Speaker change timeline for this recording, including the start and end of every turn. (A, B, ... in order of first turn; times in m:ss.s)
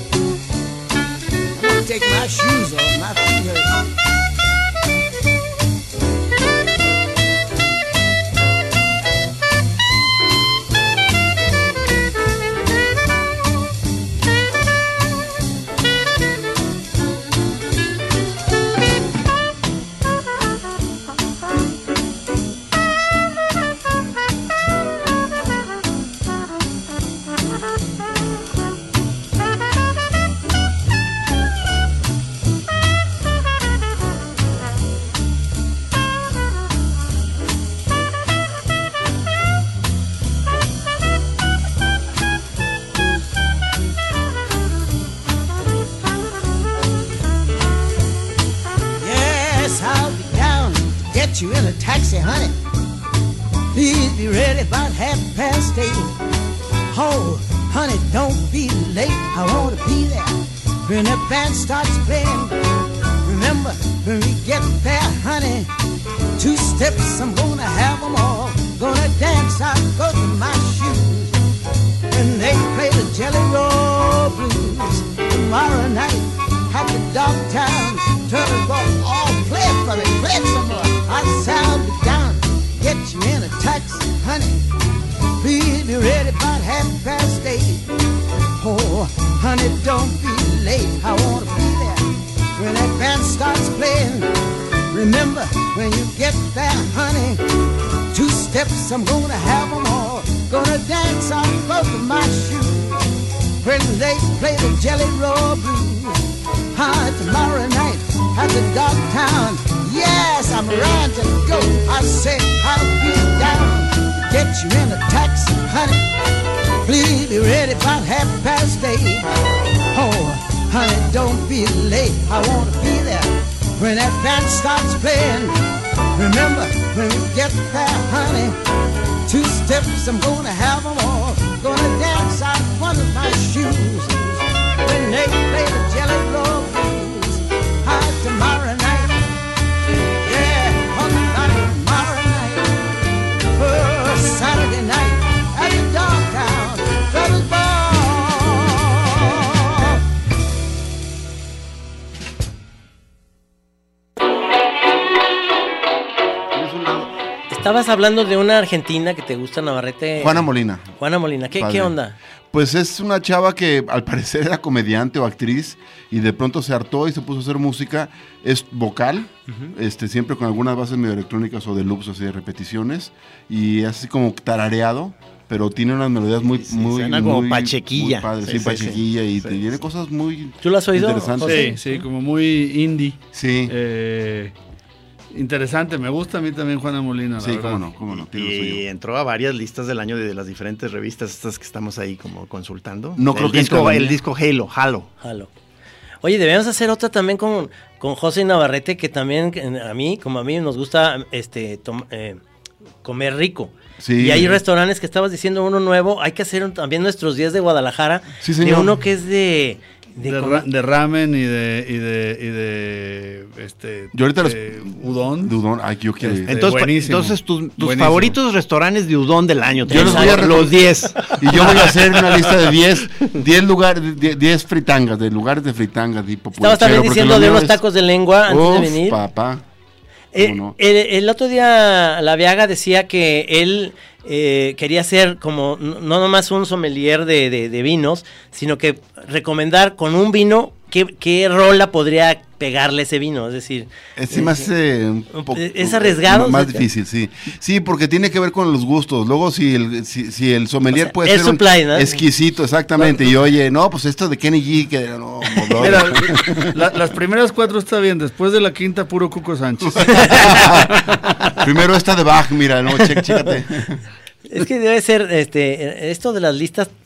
0:01.5-0:03.7 A
0:49.0-0:52.6 A
0:53.7-0:56.1 A
0:56.9-1:02.5 A
1:03.2-1:05.7 A
1:06.4-1:11.4 A
1:12.1-1:24.7 A
1:25.4-1:27.9 A
1:28.6-1:34.3 A
1:34.9-1:37.4 A
1:38.1-1:56.0 A
1:56.8-1:59.3 A
1:59.9-2:05.6 A
2:06.1-2:08.6 A
2:09.2-2:19.2 A
2:20.2-2:22.8 A
2:23.5-2:30.0 A
2:36.5-2:37.1 B
2:37.5-2:40.5 C
2:40.2-2:40.9 B
2:41.0-2:42.2 C
2:41.6-2:41.9 B
2:42.5-3:01.7 B
2:56.6-2:59.6 D
3:00.6-3:02.0 C
3:01.4-3:04.5 E
3:03.3-3:03.7 B
3:05.3-3:07.8 E
3:07.4-3:08.8 B
3:08.1-3:15.1 D
3:13.2-3:14.2 B
3:15.2-3:15.5 C
3:16.2-3:22.4 C
3:23.0-3:30.6 C
3:24.0-3:24.6 B
3:28.4-3:28.9 B
3:30.2-3:35.6 E
3:34.1-3:36.6 B
3:36.2-3:38.4 E
3:36.5-3:42.7 D
3:39.9-3:40.9 B
3:39.9-3:40.7 C
3:41.4-3:47.8 B
3:46.5-3:49.2 C
3:48.4-3:49.6 B
3:50.3-4:04.7 C
3:50.4-3:50.8 B
4:04.2-4:16.8 B
4:05.3-4:06.8 C
4:10.9-4:12.2 C
4:15.8-4:21.5 E
4:19.8-4:24.0 B
4:20.1-4:20.4 C
4:23.0-4:23.5 C
4:24.5-4:26.9 C